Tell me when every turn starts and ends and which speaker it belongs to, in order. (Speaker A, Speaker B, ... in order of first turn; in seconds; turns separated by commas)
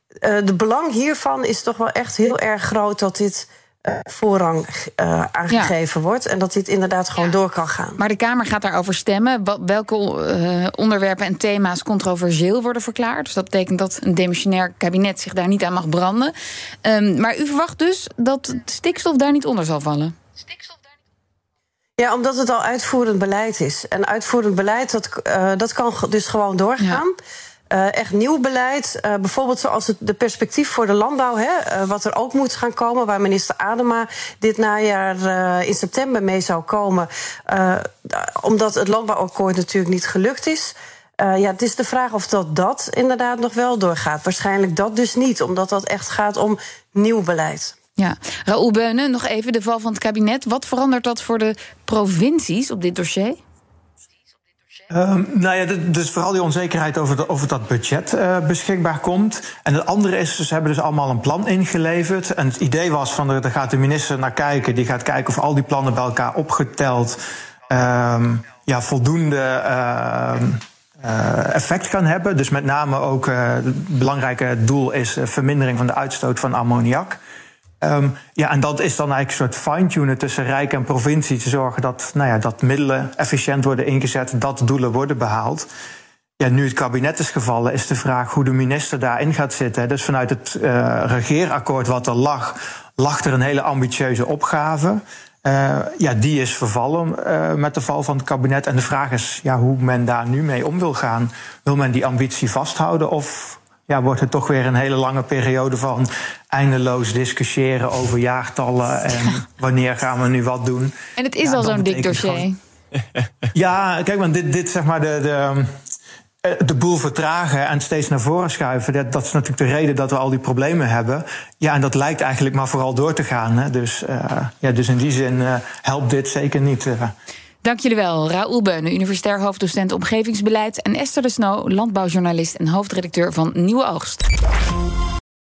Speaker A: 0.2-8.0, Speaker B: 8.0-20.1, Speaker A: 22.0-27.1, Speaker A: 27.7-47.7, Speaker B: 48.0-53.4, Speaker C: 54.9-77.2, Speaker C: 77.8-85.7, Speaker C: 86.4-112.5, Speaker B: 111.2-112.6, Speaker C: 113.5-115.7, Speaker C: 116.4-127.1, Speaker B: 127.6-134.2